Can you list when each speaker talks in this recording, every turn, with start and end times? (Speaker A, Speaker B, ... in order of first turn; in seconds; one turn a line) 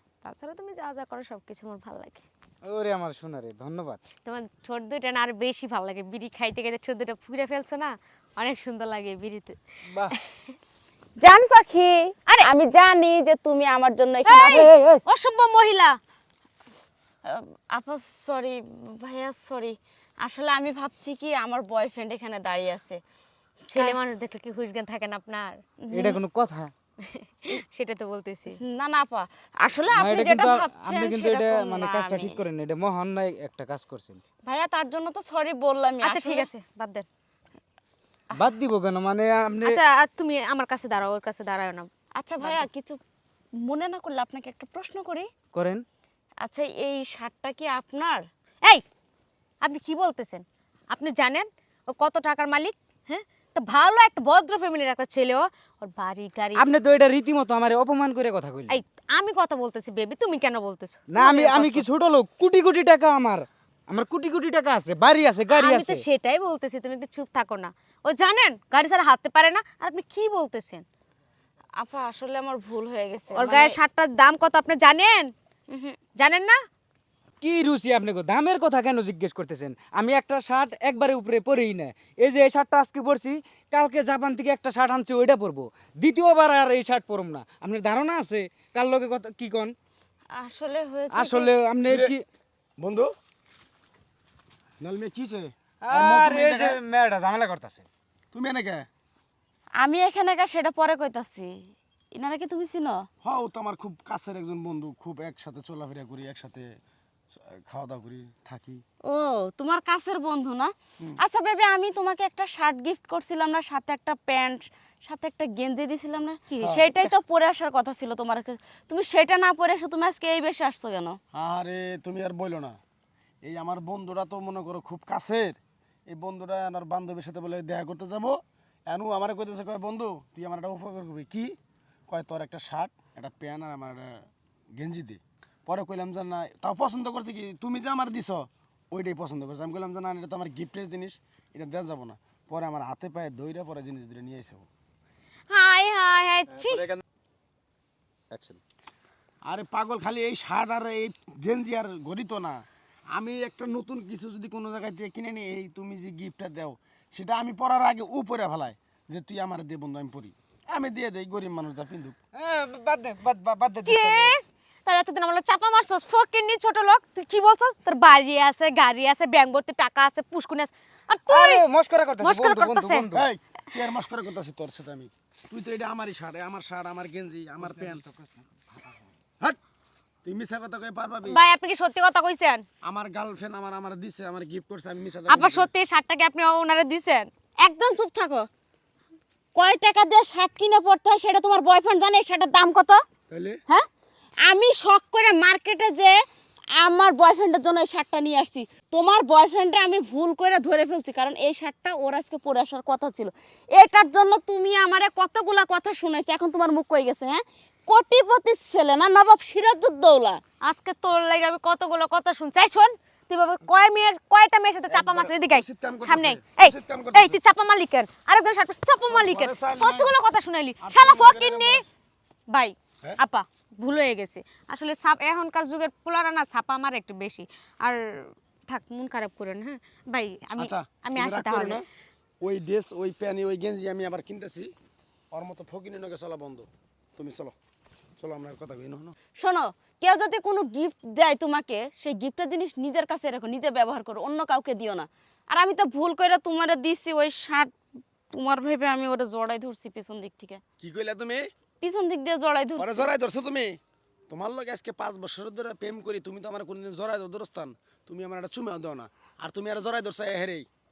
Speaker A: 0.2-2.2
Speaker B: 2.6-4.0
Speaker A: 4.2-9.6
Speaker B: 9.9-10.2
Speaker C: 11.2-15.0
Speaker A: 14.3-16.0
Speaker C: 17.2-23.0
Speaker A: 23.7-25.6
Speaker C: 23.7-24.0
Speaker C: 25.8-26.2
Speaker B: 25.9-26.7
Speaker A: 27.1-28.6
Speaker C: 28.6-32.4
Speaker B: 29.9-34.2
Speaker C: 34.5-36.5
Speaker A: 36.0-37.0
Speaker B: 38.3-39.8
Speaker A: 39.6-41.9
Speaker C: 42.2-43.0
Speaker C: 43.6-45.3
Speaker B: 45.5-45.9
Speaker C: 46.4-48.3
Speaker A: 49.6-56.7
Speaker B: 56.5-58.8
Speaker A: 58.7-61.9
Speaker B: 61.1-66.0
Speaker A: 65.5-70.8
Speaker C: 71.8-73.8
Speaker A: 73.3-75.3
Speaker C: 75.7-76.0
Speaker A: 76.2-76.6
Speaker B: 77.4-89.8
Speaker C: 90.3-91.5
Speaker B: 91.1-92.2
Speaker D: 91.9-92.1
Speaker D: 92.8-93.1
Speaker D: 94.8-96.8
Speaker B: 95.8-97.8
Speaker D: 98.3-98.9
Speaker C: 99.8-101.5
Speaker C: 102.1-103.0
Speaker D: 103.2-106.7
Speaker D: 107.3-108.8
Speaker C: 109.1-121.2
Speaker A: 116.5-117.1
Speaker D: 121.3-122.8
Speaker D: 123.4-131.6
Speaker D: 132.1-144.7
Speaker A: 145.5-146.9
Speaker B: 148.3-148.6
Speaker D: 149.4-152.6
Speaker D: 153.1-162.2
Speaker B: 162.3-164.3
Speaker A: 163.8-171.6
Speaker B: 171.3-173.3
Speaker A: 172.2-173.1
Speaker D: 173.1-178.1
Speaker B: 177.7-178.3
Speaker D: 180.2-181.4
Speaker A: 181.2-182.7
Speaker D: 182.8-185.7
Speaker A: 185.3-187.3
Speaker C: 187.6-188.5
Speaker C: 189.6-193.0
Speaker D: 193.3-193.6
Speaker C: 194.4-196.2
Speaker C: 196.8-210.4
Speaker A: 210.6-221.8
Speaker D: 214.9-217.4
Speaker D: 219.1-220.1
Speaker D: 220.8-221.8
Speaker A: 222.5-231.8
Speaker D: 230.6-231.9
Speaker D: 232.4-234.7
Speaker D: 235.3-237.6
Speaker D: 238.2-239.2
Speaker C: 239.4-247.7
Speaker C: 248.3-250.6
Speaker D: 250.8-251.5
Speaker C: 251.8-253.1
Speaker D: 252.8-253.8
Speaker D: 254.3-260.7